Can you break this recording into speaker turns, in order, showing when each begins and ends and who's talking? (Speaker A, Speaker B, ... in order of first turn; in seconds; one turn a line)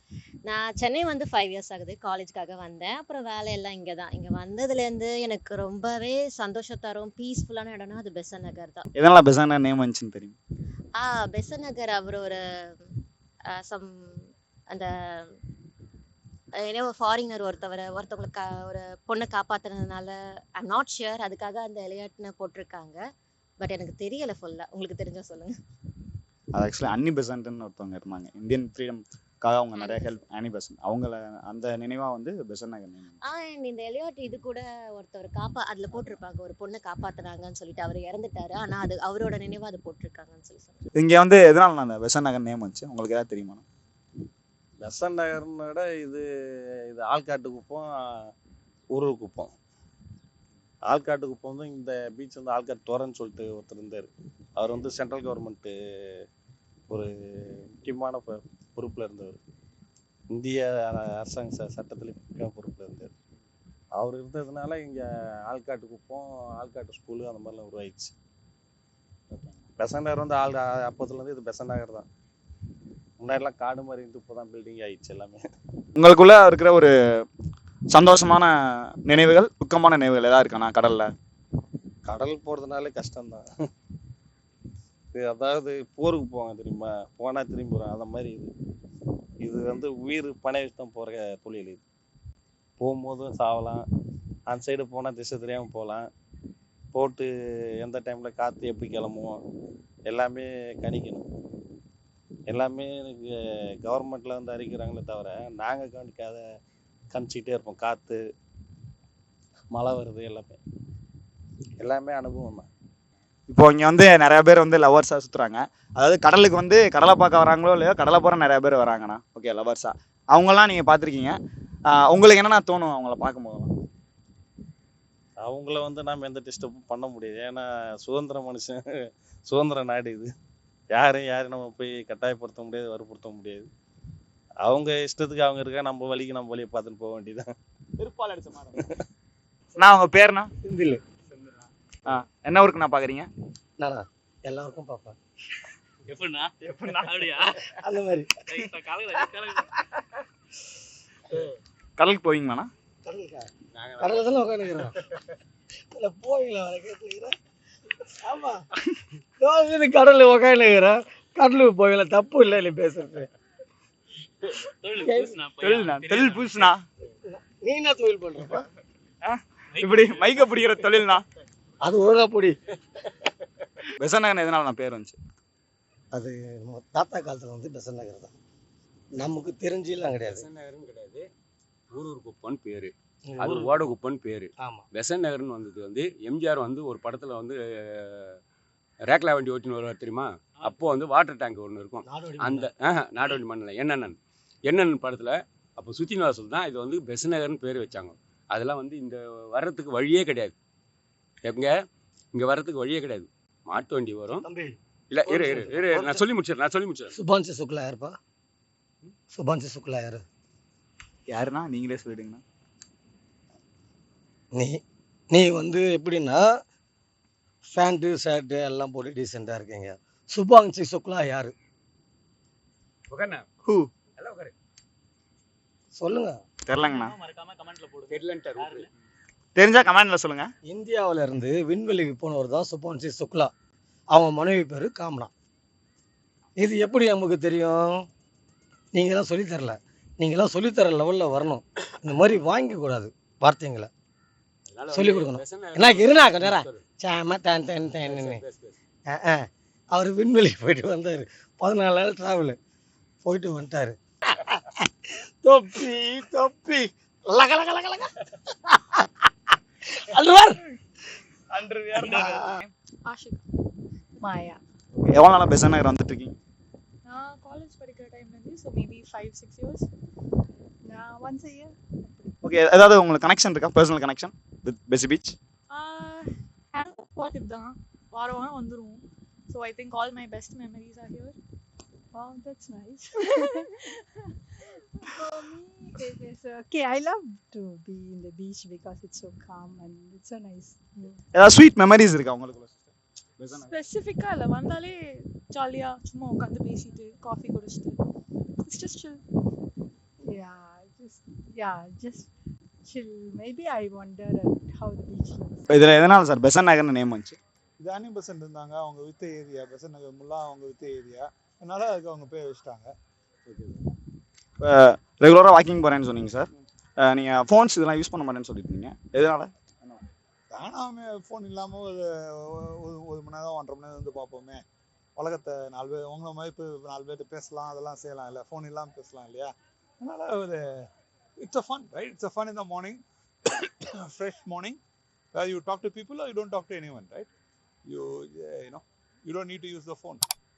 Speaker A: 0.5-8.9
Speaker B: 9.0-10.4
Speaker A: 11.0-12.9
Speaker A: 13.5-15.3
Speaker A: 16.6-23.0
Speaker A: 23.6-25.5
Speaker B: 26.5-33.2
Speaker A: 29.8-30.1
Speaker A: 33.3-40.9
Speaker B: 41.0-43.6
Speaker C: 44.8-46.2
Speaker C: 46.9-47.9
Speaker C: 49.0-49.5
Speaker C: 50.9-55.7
Speaker C: 57.8-59.4
Speaker C: 60.3-63.1
Speaker C: 64.0-68.1
Speaker C: 69.8-72.1
Speaker C: 73.2-75.4
Speaker B: 76.0-76.9
Speaker B: 77.9-78.5
Speaker B: 79.0-81.1
Speaker C: 82.1-83.5
Speaker C: 85.1-88.5
Speaker C: 89.5-91.8
Speaker C: 92.8-93.8
Speaker C: 94.5-96.0
Speaker C: 96.9-97.3
Speaker C: 97.8-99.3
Speaker C: 100.1-101.2
Speaker C: 102.5-103.3
Speaker C: 103.8-106.4
Speaker C: 107.1-108.2
Speaker C: 109.7-110.6
Speaker C: 111.8-112.7
Speaker B: 113.5-121.4
Speaker B: 122.0-123.7
Speaker C: 125.4-128.8
Speaker C: 129.5-130.3
Speaker C: 130.9-133.7
Speaker C: 134.6-137.5
Speaker B: 138.0-138.8
Speaker B: 139.8-140.5
Speaker D: 140.7-141.0
Speaker B: 142.1-143.3
Speaker D: 143.8-145.2
Speaker E: 146.1-147.6
Speaker B: 146.7-147.1
Speaker D: 147.6-148.7
Speaker E: 148.5-149.6
Speaker B: 152.0-152.7
Speaker D: 153.1-155.0
Speaker F: 153.8-154.3
Speaker D: 155.9-157.3
Speaker D: 158.0-158.7
Speaker D: 159.4-163.3
Speaker E: 164.8-166.7
Speaker D: 164.9-165.4
Speaker B: 165.6-166.8
Speaker D: 167.2-168.7
Speaker B: 169.2-171.2
Speaker E: 169.8-170.6
Speaker D: 171.8-172.6
Speaker B: 174.0-175.2
Speaker D: 176.1-178.3
Speaker D: 179.2-180.5
Speaker F: 180.3-181.3
Speaker F: 181.9-188.4
Speaker D: 183.3-183.8
Speaker D: 184.6-184.9
Speaker F: 189.1-200.5
Speaker D: 192.1-192.7
Speaker F: 202.3-204.4
Speaker D: 204.4-204.7
Speaker F: 205.1-207.1
Speaker D: 205.2-206.2
Speaker D: 207.1-208.2
Speaker D: 209.3-210.2
Speaker B: 211.3-212.4
Speaker D: 214.5-216.6
Speaker D: 217.7-221.5
Speaker F: 223.1-223.5
Speaker B: 223.7-223.9
Speaker F: 224.2-224.5
Speaker D: 225.9-226.4
Speaker B: 226.7-227.1
Speaker E: 226.8-228.9
Speaker F: 228.1-228.9
Speaker B: 229.6-230.5
Speaker D: 230.7-233.5
Speaker D: 234.1-235.3
Speaker D: 236.6-238.1
Speaker D: 238.9-243.9
Speaker F: 244.7-246.8
Speaker D: 244.9-248.4
Speaker F: 247.9-248.8
Speaker D: 249.1-252.6
Speaker D: 253.2-259.2
Speaker D: 259.9-260.6
Speaker D: 262.0-262.5
Speaker E: 262.0-262.5
Speaker G: 263.1-263.4
Speaker H: 264.2-264.6
Speaker B: 265.0-266.4
Speaker G: 267.1-269.9
Speaker H: 270.9-272.4
Speaker B: 272.4-275.4
Speaker G: 275.7-281.4
Speaker H: 282.1-283.7
Speaker H: 285.0-291.2
Speaker B: 291.3-293.7
Speaker G: 293.6-298.0
Speaker G: 298.6-299.2
Speaker H: 300.3-302.3
Speaker H: 302.9-305.7
Speaker B: 305.7-307.4
Speaker I: 307.8-312.9
Speaker B: 313.5-313.8
Speaker B: 314.6-316.5
Speaker B: 317.0-320.0
Speaker I: 320.5-324.6
Speaker I: 325.2-330.8
Speaker I: 331.4-333.0
Speaker I: 333.5-334.8
Speaker I: 335.3-337.3
Speaker I: 337.9-340.2